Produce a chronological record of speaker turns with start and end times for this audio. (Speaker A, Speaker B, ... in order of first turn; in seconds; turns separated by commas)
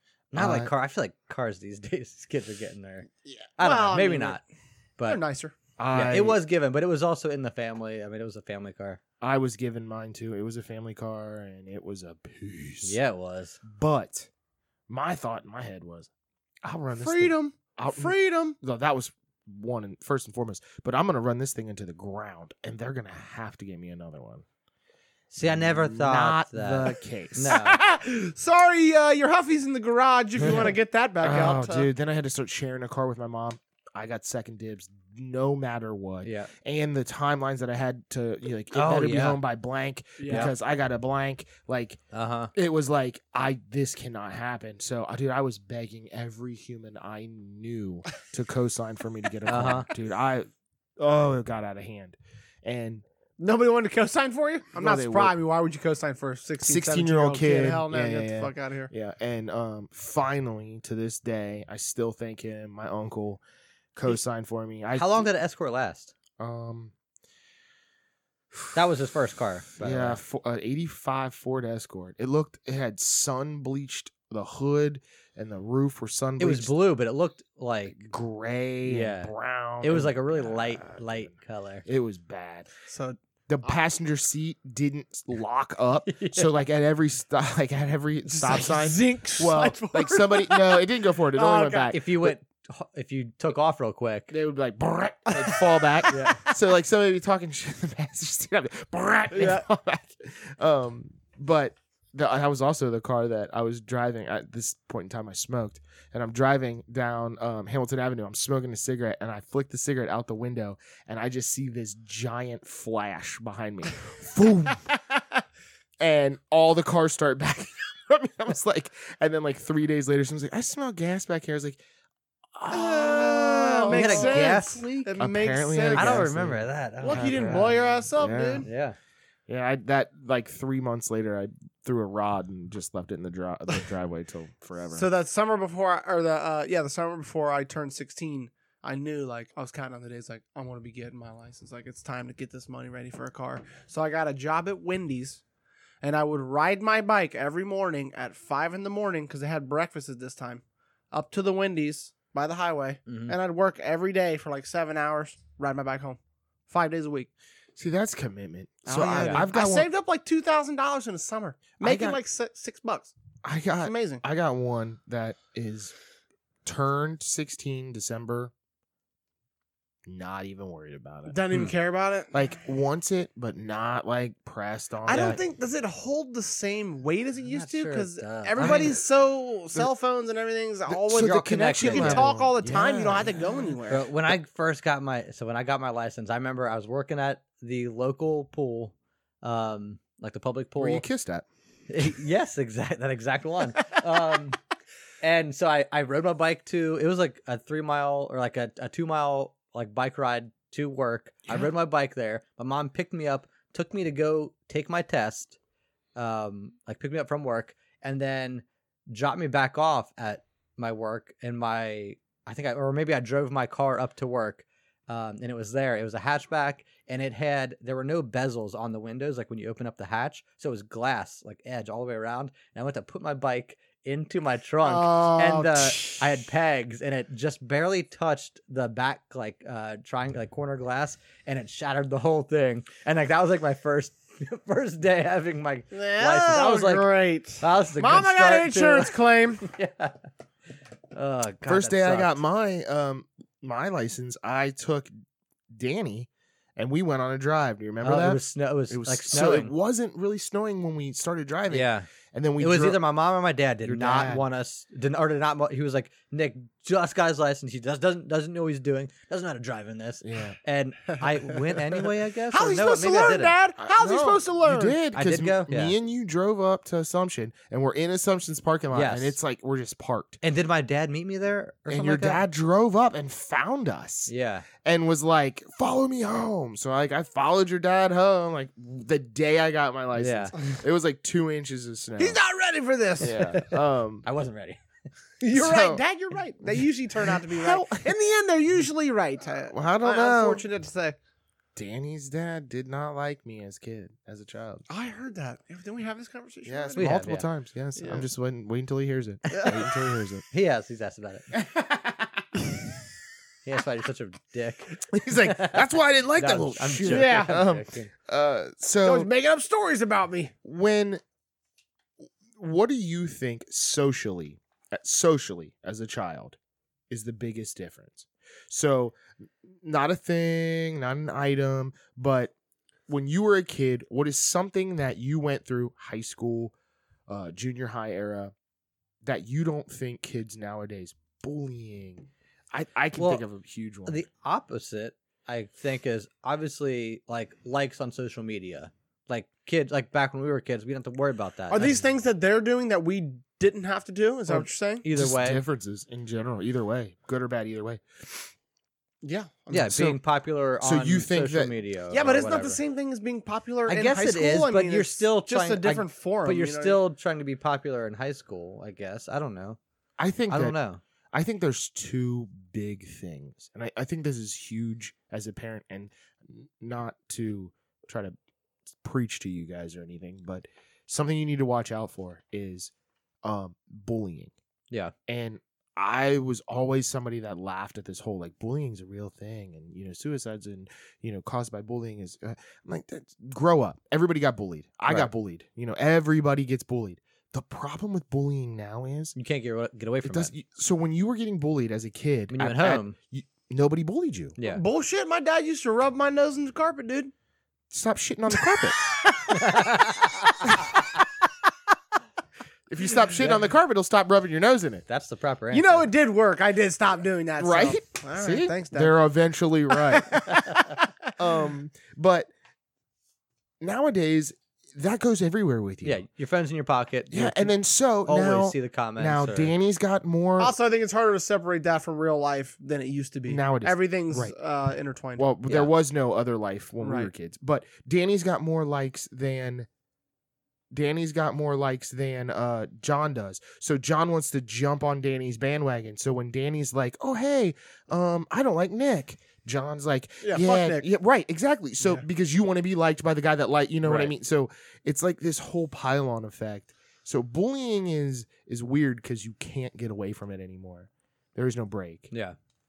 Speaker A: 0.3-4.4, Speaker B: 0.3-0.7, Speaker C: 3.6-4.4, Speaker C: 5.1-5.5, Speaker B: 5.8-6.4, Speaker A: 5.9-9.0, Speaker B: 9.2-13.0, Speaker A: 12.8-13.6, Speaker B: 13.6-14.3, Speaker B: 14.9-16.1, Speaker B: 16.6-24.4, Speaker C: 17.0-18.6, Speaker A: 25.3-27.8, Speaker B: 25.4-27.6, Speaker C: 27.5-31.9, Speaker B: 30.4-30.7, Speaker B: 31.2-42.0, Speaker A: 36.2-36.5, Speaker A: 38.7-39.4, Speaker C: 40.2-40.5, Speaker A: 42.1-42.5, Speaker B: 42.5-50.5, Speaker A: 49.5-49.9, Speaker B: 51.0-53.0, Speaker C: 53.4-58.9, Speaker B: 54.8-55.3, Speaker B: 56.6-63.4, Speaker B: 63.9-65.3, Speaker A: 64.9-66.1, Speaker B: 66.4-66.9, Speaker A: 68.7-70.2, Speaker B: 69.8-76.7, Speaker A: 76.4-78.1, Speaker B: 77.9-81.3, Speaker A: 78.8-81.8, Speaker B: 81.8-82.7, Speaker C: 82.9-83.8, Speaker B: 83.5-92.3, Speaker A: 86.0-86.5, Speaker C: 88.3-91.9, Speaker A: 91.9-94.3, Speaker B: 94.3-114.8, Speaker C: 95.3-96.5, Speaker A: 96.1-96.4, Speaker C: 99.3-99.7, Speaker B: 116.0-121.8, Speaker B: 122.5-124.5, Speaker C: 122.7-126.3, Speaker A: 123.9-125.1, Speaker B: 125.2-128.7, Speaker A: 125.9-128.0, Speaker C: 127.0-128.7, Speaker A: 128.6-129.0, Speaker B: 129.5-135.1, Speaker C: 134.9-145.4, Speaker C: 146.0-157.3, Speaker A: 153.1-153.3, Speaker B: 157.8-159.9, Speaker C: 158.8-163.1, Speaker A: 159.1-159.5, Speaker B: 161.8-162.2, Speaker B: 163.4-165.9, Speaker C: 163.8-164.2, Speaker B: 166.6-168.5, Speaker B: 170.1-171.4, Speaker C: 171.3-172.3, Speaker B: 172.3-175.4, Speaker C: 175.1-184.1, Speaker A: 175.1-175.4, Speaker A: 177.4-178.9, Speaker B: 178.6-179.0, Speaker B: 180.9-183.7, Speaker A: 181.2-182.3, Speaker A: 183.9-191.0, Speaker B: 190.8-191.4, Speaker A: 191.9-194.6, Speaker A: 195.2-205.6, Speaker A: 206.2-240.2, Speaker C: 224.8-226.2, Speaker C: 235.9-239.7, Speaker A: 241.1-242.4, Speaker B: 241.7-245.1, Speaker B: 245.7-253.0, Speaker A: 248.0-249.7, Speaker A: 251.7-263.6, Speaker B: 253.8-254.4, Speaker B: 260.2-260.6, Speaker C: 262.5-265.0, Speaker B: 263.8-270.4, Speaker A: 265.1-265.9, Speaker A: 268.9-269.4, Speaker A: 270.4-272.4, Speaker B: 271.9-274.3, Speaker A: 274.3-274.7, Speaker B: 274.8-282.4, Speaker A: 280.1-280.6, Speaker C: 282.2-283.4, Speaker B: 283.2-284.2, Speaker A: 283.3-284.8, Speaker C: 285.4-291.1, Speaker B: 285.5-286.0, Speaker B: 287.2-288.1, Speaker B: 289.7-290.6, Speaker B: 291.8-294.8, Speaker C: 294.9-297.1, Speaker B: 296.6-300.4, Speaker A: 296.9-297.4, Speaker C: 297.9-298.3, Speaker C: 299.5-299.9, Speaker A: 300.5-301.6, Speaker B: 301.6-302.0, Speaker A: 303.6-308.1, Speaker B: 305.1-309.3, Speaker C: 307.1-307.6, Speaker C: 309.0-310.5, Speaker B: 310.6-311.2, Speaker B: 312.6-316.6, Speaker B: 317.1-322.5, Speaker B: 323.1-326.7, Speaker B: 327.3-328.5, Speaker B: 329.2-334.2, Speaker A: 333.2-333.4, Speaker A: 334.1-341.9, Speaker C: 341.7-345.1, Speaker A: 344.5-345.6, Speaker B: 345.1-348.0, Speaker C: 349.2-349.9, Speaker A: 349.7-352.8, Speaker B: 349.7-350.2, Speaker B: 350.8-351.8, Speaker C: 352.1-357.0, Speaker A: 353.9-359.8, Speaker B: 360.2-360.8, Speaker A: 360.5-361.0, Speaker B: 361.3-368.3, Speaker B: 369.0-372.9, Speaker B: 373.4-374.5, Speaker B: 375.3-389.3, Speaker A: 389.4-390.5, Speaker B: 390.2-394.6, Speaker A: 392.5-393.1, Speaker C: 394.6-397.3, Speaker B: 397.9-399.1, Speaker C: 398.6-399.7, Speaker A: 399.5-400.9, Speaker B: 402.9-405.0, Speaker A: 405.1-406.1, Speaker C: 405.7-409.1, Speaker B: 407.6-410.7, Speaker C: 409.9-411.6, Speaker B: 411.4-412.5, Speaker B: 413.8-416.2, Speaker A: 416.0-417.7, Speaker B: 417.3-420.7, Speaker A: 418.2-419.7, Speaker C: 420.6-425.5, Speaker B: 423.5-424.5, Speaker B: 425.4-429.9, Speaker C: 427.0-427.3, Speaker B: 430.9-452.3, Speaker C: 440.4-441.1, Speaker A: 444.0-444.3, Speaker A: 452.3-452.6